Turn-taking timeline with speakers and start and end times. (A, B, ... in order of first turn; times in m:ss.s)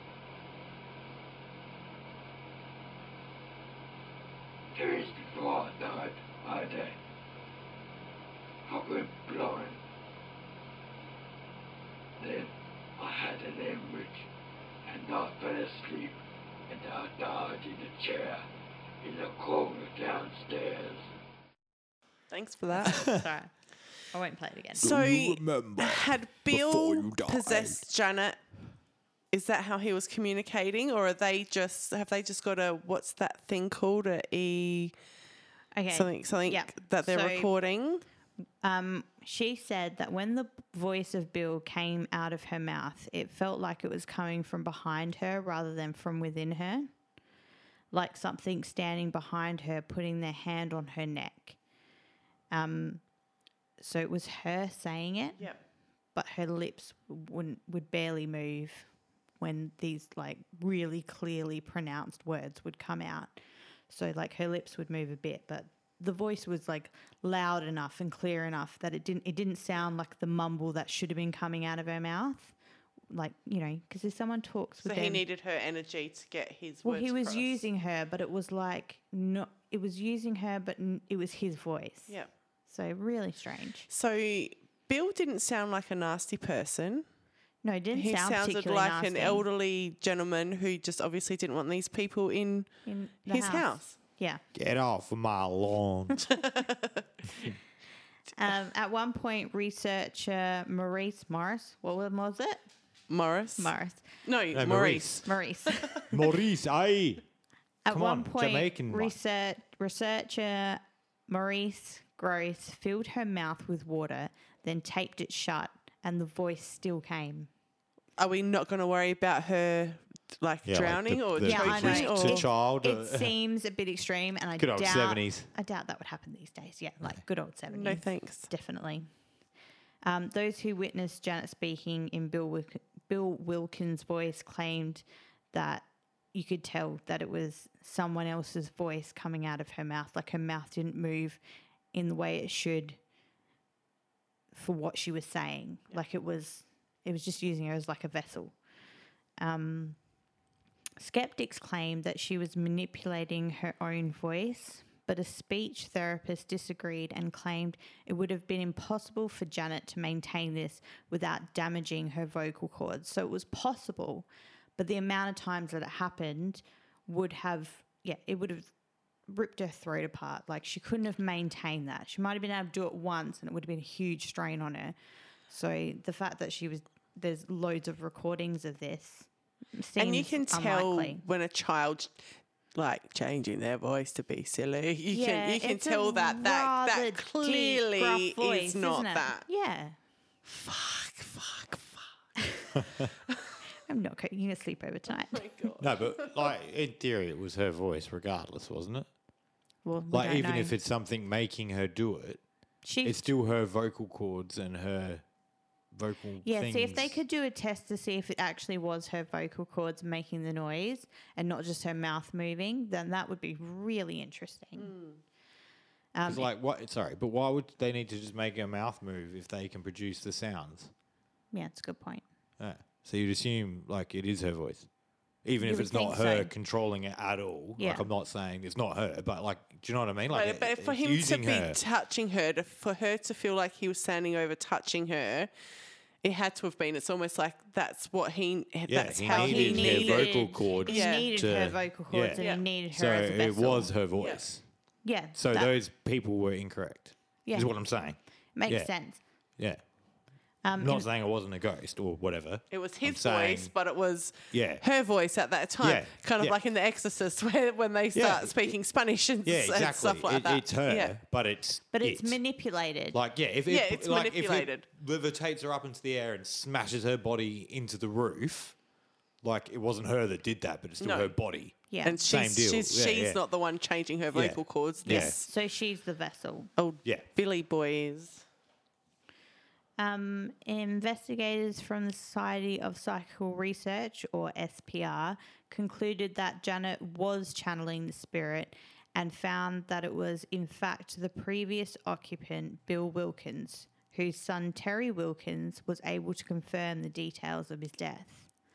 0:04.7-0:07.0 A
0:08.6-0:09.8 A
0:12.2-0:14.2 A
0:14.8-0:16.1 A
0:16.7-0:18.4 A
0:19.0-0:21.0 A
0:22.3-0:23.0 B
0:22.8-0:23.5 C
0:22.8-0:23.2 D
0:24.1-0:24.9 C
0:24.8-0:28.4 B
0:24.8-0:27.8 D
0:29.3-0:34.9 B
0:35.7-0:37.5 C
0:35.9-0:38.0 B
0:38.6-0:46.9 C
0:47.9-0:51.6 C
0:52.5-0:53.0 C
0:53.8-0:55.5 C
0:56.1-0:58.9 C
0:59.4-1:12.5 C
1:13.1-1:15.2 C
1:14.8-1:17.6 B
1:16.8-1:22.2 C
1:22.7-1:23.8 C
1:23.9-1:27.0 B
1:27.6-1:29.4 C
1:27.9-1:34.0 B
1:32.8-1:34.4 C
1:34.5-1:36.2 D
1:36.2-1:37.0 B
1:38.4-1:42.6 C
1:43.1-1:46.0 B
1:43.6-1:44.0 C
1:44.5-1:45.3 D
1:45.2-1:46.1 C
1:46.1-1:47.2 D
1:47.8-1:57.5 C
1:47.9-1:49.1 D
1:58.2-2:02.5 B
2:00.6-2:03.3 D
2:01.4-2:09.1 C
2:04.6-2:05.5 D
2:07.7-2:08.5 B
2:10.0-2:21.4 C
2:21.9-2:23.0 C
2:24.5-2:28.5 C
2:29.4-2:30.0 C
2:31.0-2:48.7 C
2:49.3-2:54.9 C
2:55.5-3:01.2 C
3:00.0-3:09.4 B
3:05.1-3:10.0 C
3:10.4-3:12.0 B
3:12.4-3:12.7 C
3:12.8-3:13.1 D
3:13.9-3:15.4 C
3:15.3-3:16.4 B
3:15.8-3:19.1 D
3:19.8-3:20.7 C
3:20.1-3:22.4 D
3:22.8-3:23.2 C
3:23.0-3:25.2 D
3:25.9-3:27.2 D
3:26.4-3:35.0 C
3:34.8-3:35.2 B
3:36.1-3:36.5 C
3:36.2-3:40.9 D
3:41.5-3:42.2 C
3:42.6-3:44.9 D
3:45.4-3:51.8 D
3:45.6-3:46.5 C
3:47.8-3:48.1 C
3:50.3-3:55.5 B
3:56.2-4:01.3 B
3:58.9-4:04.6 D
3:59.3-4:03.9 C
4:02.4-4:02.6 B
4:04.2-4:04.4 B
4:05.0-4:05.7 C
4:05.3-4:08.9 D
4:07.4-4:07.7 C
4:08.6-4:09.2 C
4:10.6-4:11.1 C
4:10.8-4:13.7 D
4:12.7-4:21.2 B
4:14.5-4:14.8 D
4:15.8-4:16.6 D
4:18.1-4:18.7 D
4:19.4-4:22.4 D
4:21.9-4:23.2 C
4:23.1-4:28.8 D
4:23.7-4:24.8 B
4:29.4-4:33.4 D
4:31.0-4:31.3 B
4:31.9-4:32.2 C
4:32.0-4:35.4 B
4:34.3-4:35.4 D
4:35.0-4:36.7 C
4:36.8-4:38.4 B
4:40.0-4:58.5 C